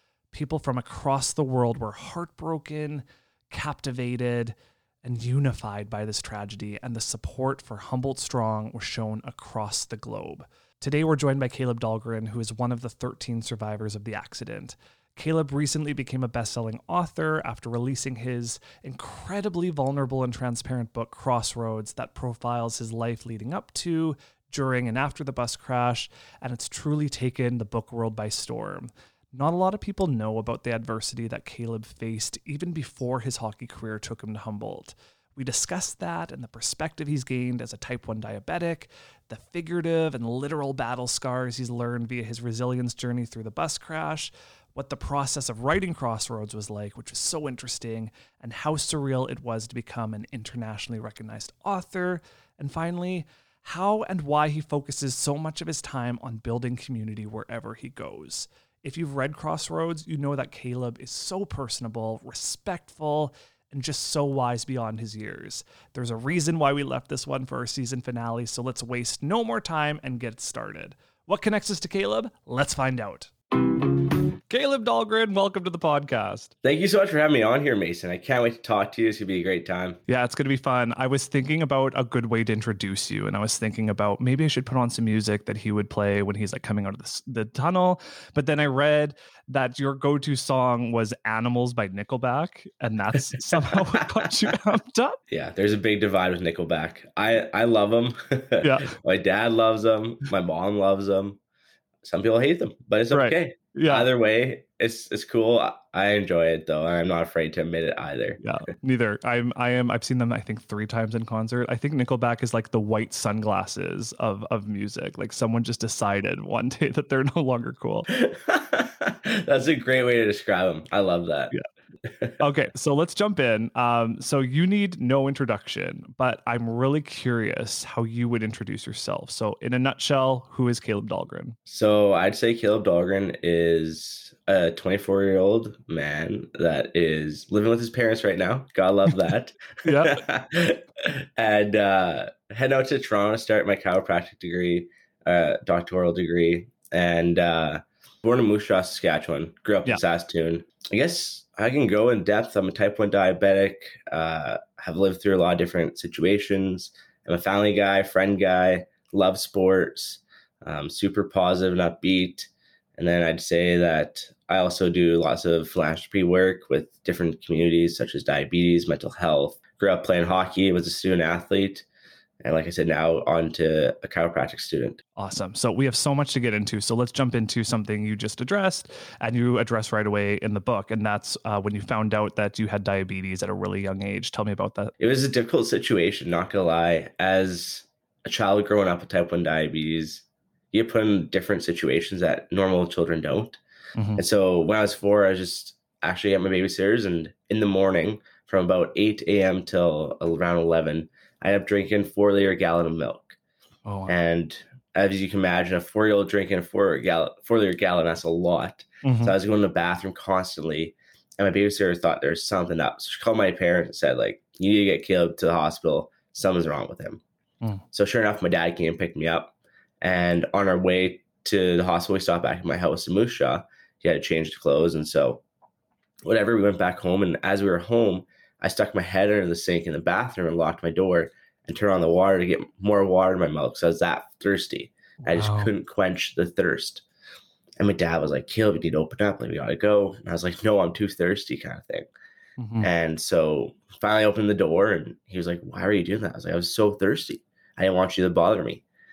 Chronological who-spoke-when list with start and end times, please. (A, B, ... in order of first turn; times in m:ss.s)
0:00.3-1:13.3 A
1:14.5-1:16.5 A
1:16.6-1:20.0 B
1:20.1-1:35.2 A
1:33.7-1:34.3 B
1:35.3-1:41.4 B
1:38.6-1:38.9 A
1:42.0-1:48.4 B
1:43.1-1:44.1 A
1:48.4-1:58.1 A
1:58.1-2:01.5 B
2:02.4-2:11.6 A
2:11.7-2:51.9 B
2:19.8-2:20.2 A
2:52.4-2:55.0 B
2:55.2-3:04.9 A
3:05.0-3:13.6 B
3:14.0-3:14.2 A
3:14.2-3:23.4 B
3:23.9-3:24.1 A
3:24.1-3:37.2 B
3:29.0-3:29.4 A
3:37.9-3:45.4 B
3:46.2-3:57.0 B
3:55.3-3:55.7 A
3:57.8-4:02.1 B
4:02.6-4:02.9 A
4:02.8-4:08.8 B